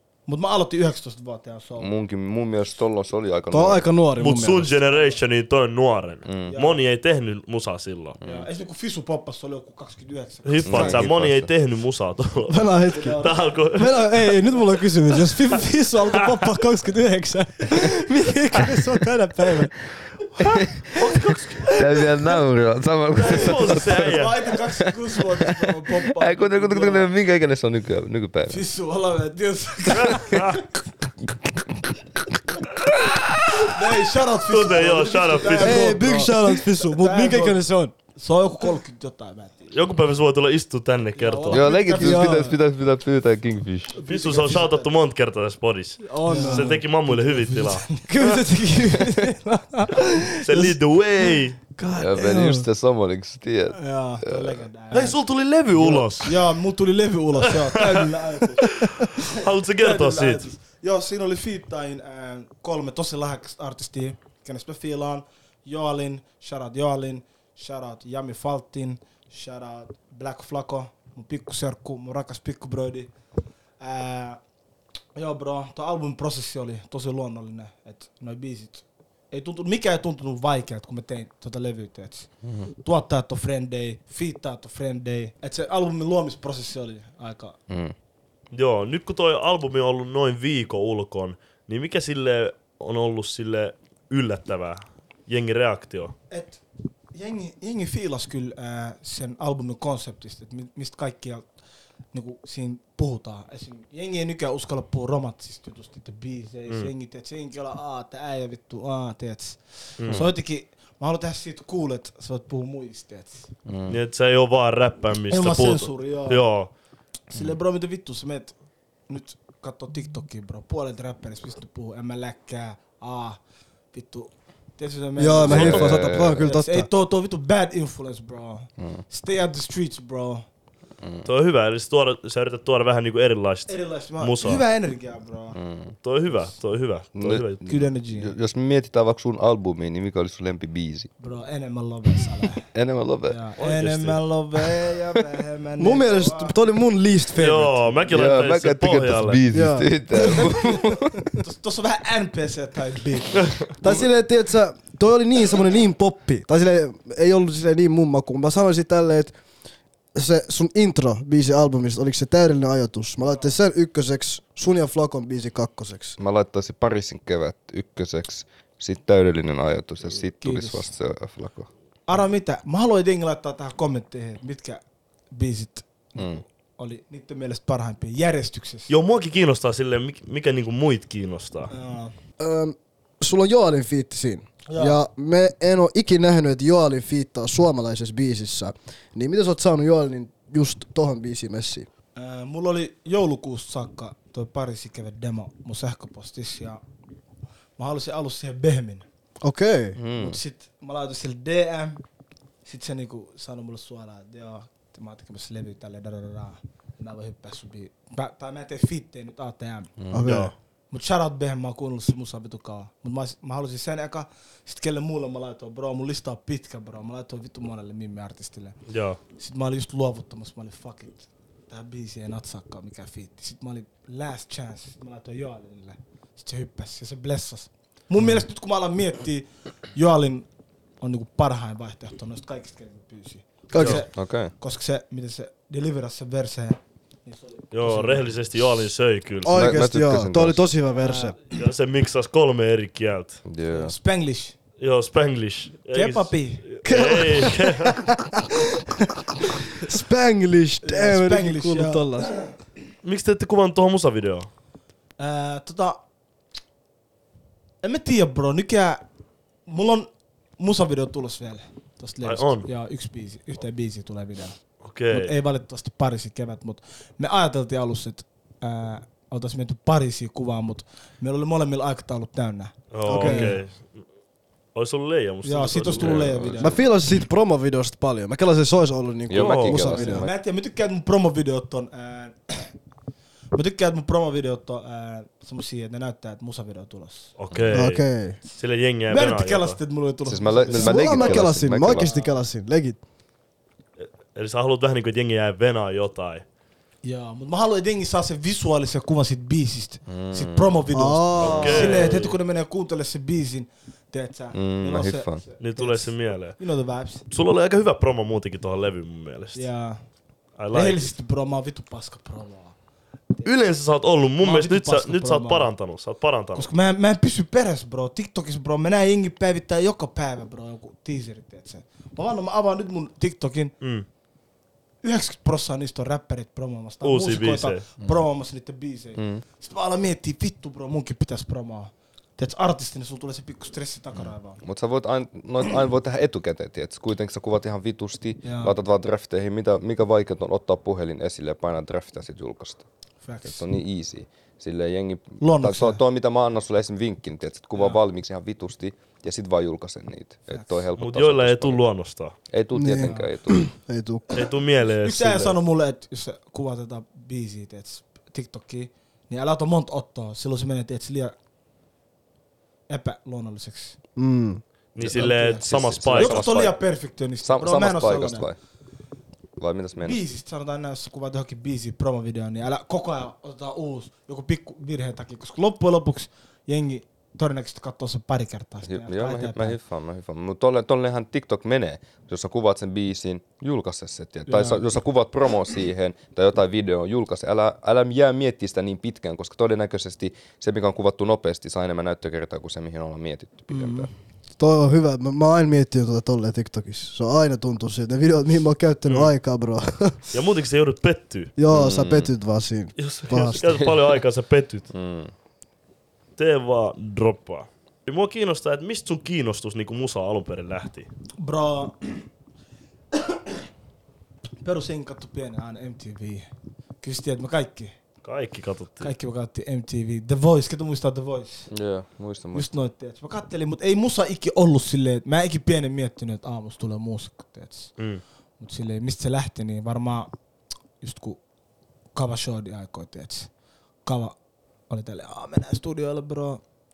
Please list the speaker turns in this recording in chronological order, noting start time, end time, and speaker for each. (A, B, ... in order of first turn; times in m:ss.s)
0:00.3-0:01.9 A
0:01.8-0:03.9 B
0:03.5-0:04.7 C
0:04.2-0:08.2 D
0:04.8-0:05.2 A
0:06.3-0:06.6 B
0:06.5-0:06.8 A
0:08.2-0:08.5 B
0:08.2-0:11.1 A
0:10.4-0:12.6 D
0:10.6-0:11.5 B
0:12.5-0:19.7 C
0:12.9-0:13.5 A
0:13.2-0:14.1 D
0:15.3-0:15.6 A
0:17.7-0:18.7 A
0:20.4-0:20.7 B
0:21.0-0:21.7 D
0:21.6-0:28.6 B
0:21.8-0:22.1 A
0:23.2-0:27.1 A
0:23.2-0:24.4 D
0:28.5-0:30.6 A
0:29.9-0:30.6 D
0:32.9-0:33.8 B
0:33.7-0:37.6 A
0:34.5-0:36.0 D
0:35.6-0:37.9 C
0:38.1-0:39.7 A
0:39.7-0:41.8 D
0:41.2-0:42.6 A
0:41.5-0:44.0 B
0:42.0-0:42.5 C
0:43.9-0:44.9 A
0:44.0-0:47.9 D
0:46.1-0:50.6 A
0:46.2-0:46.8 C
0:48.1-0:50.7 C
0:50.4-0:51.6 D
0:51.8-0:52.7 C
0:52.0-0:54.6 B
0:53.7-0:55.2 A
0:54.9-0:56.3 D
0:55.8-1:13.1 A
0:57.4-0:58.1 D
0:58.8-1:00.5 D
1:13.8-1:14.4 A
1:15.2-1:22.3 A
1:22.4-1:22.7 B
1:22.8-1:27.6 A
1:27.7-1:27.9 B
1:28.5-1:36.1 D
1:36.3-1:36.6 A
1:37.1-1:41.5 A
1:42.1-1:53.5 A
1:50.0-1:50.3 D
1:53.7-1:54.0 B
1:53.9-1:56.7 D
1:55.3-1:56.4 A
1:57.3-1:58.6 A
1:59.1-2:03.4 A
2:03.9-2:10.4 A
2:05.2-2:06.9 C
2:05.4-2:06.4 B
2:05.5-2:05.9 D
2:11.0-2:11.3 B
2:11.2-2:14.6 D
2:13.7-2:15.6 A
2:15.5-2:16.0 B
2:16.0-2:17.6 D
2:17.2-2:21.1 B
2:17.7-2:18.3 A
2:21.2-2:22.6 A
2:22.7-2:23.4 B
2:23.3-2:26.5 A
2:23.6-2:24.2 D
2:24.7-2:24.9 B
2:25.8-2:27.8 C
2:27.4-2:29.4 D
2:28.1-2:31.4 B
2:29.5-2:30.6 C
2:30.2-2:33.9 A
2:33.8-2:39.4 C
2:40.1-2:46.2 C
2:46.2-2:51.7 B
2:50.2-2:50.9 A
2:52.1-2:58.9 A
2:56.2-2:56.4 B
2:58.9-3:01.7 D
3:01.7-3:02.1 A
3:02.4-3:11.9 C
3:04.7-3:05.0 A
3:12.2-3:16.8 A
3:17.8-3:19.0 A
3:19.4-3:20.0 C
3:20.0-3:20.4 B
3:20.2-3:22.0 A
3:22.6-3:29.9 A
3:30.0-3:30.3 B
3:30.1-3:30.5 C
3:30.2-3:30.5 D
3:30.9-3:38.8 A
3:38.9-3:39.2 D
3:39.4-3:50.5 A
3:51.0-3:58.3 A
3:53.8-3:54.5 B
3:53.8-3:54.0 D
3:57.7-3:59.6 D
3:59.4-4:01.4 C
3:59.5-4:00.7 B
4:00.9-4:01.6 A
4:01.5-4:03.4 D
4:03.5-4:03.9 B
4:03.7-4:04.6 A
4:04.8-4:08.1 D
4:05.9-4:06.6 A
4:06.9-4:08.6 C
4:09.8-4:12.3 C
4:10.8-4:12.4 A
4:13.0-4:14.5 D
4:15.2-4:16.0 A
4:17.8-4:19.0 A
4:19.7-4:24.6 A
4:22.2-4:22.7 D
4:24.8-4:25.3 D
4:25.1-4:33.6 A
4:32.9-4:34.0 D
4:33.1-4:33.6 C
4:34.8-4:36.7 D
4:35.4-4:36.8 A
4:36.0-4:36.8 B
4:36.6-4:40.3 C
4:39.3-4:40.4 B
4:39.4-4:39.8 D
4:39.8-4:42.7 A
4:43.5-4:47.3 A
4:47.4-4:49.8 D
4:47.5-4:47.8 B
4:47.7-4:48.4 C
4:49.1-4:52.3 A
4:50.2-4:52.1 B
4:50.7-4:53.0 C
4:54.0-4:56.4 D
4:57.0-5:07.3 A
5:00.1-5:00.8 B
5:00.9-5:02.1 C
5:01.4-5:02.4 D
5:04.5-5:05.4 B
5:05.6-5:06.6 D
5:07.3-5:09.6 D
5:09.6-5:10.0 A
5:10.6-5:11.1 D
5:10.7-5:12.7 A
5:13.4-5:16.7 D
5:14.4-5:15.7 A
5:16.6-5:23.7 A
5:23.8-5:24.1 D
5:25.0-5:34.6 A
5:27.0-5:27.8 D
5:29.2-5:29.4 B
5:34.1-5:42.8 B
5:38.4-5:38.7 A
5:43.2-5:43.6 A
5:43.4-5:51.8 B
5:45.4-5:46.0 A
5:50.5-5:50.8 A
5:51.0-5:52.4 D
5:52.5-5:53.7 B
5:52.7-5:54.2 C
5:53.0-5:53.3 A
5:54.3-5:55.6 D
5:55.0-6:01.4 A
6:02.9-6:04.0 A
6:04.2-6:04.6 C
6:05.0-6:06.7 D
6:05.0-6:06.7 B
6:05.1-6:08.4 A
6:07.4-6:08.6 B
6:09.6-6:10.2 B
6:10.0-6:19.8 A
6:18.9-6:34.1 B
6:24.5-6:24.8 A
6:33.7-6:34.1 A
6:34.6-6:40.3 C
6:39.0-6:39.3 D
6:40.3-6:41.5 D
6:41.6-6:43.6 C
6:41.7-6:42.3 B
6:43.0-6:44.9 D
6:43.5-6:44.2 B
6:44.9-6:45.3 B
6:46.4-6:51.1 D
6:51.4-6:52.3 A
6:53.1-6:53.6 A
6:54.6-6:56.5 A
6:57.0-6:57.9 A
6:58.2-6:59.1 D
6:59.0-7:01.7 A
7:01.7-7:02.7 B
7:02.5-7:07.9 A
7:08.0-7:08.2 D
7:08.6-7:10.3 A
7:11.0-7:11.4 A
7:12.2-7:13.5 A
7:14.0-7:14.4 A
7:14.9-7:16.6 A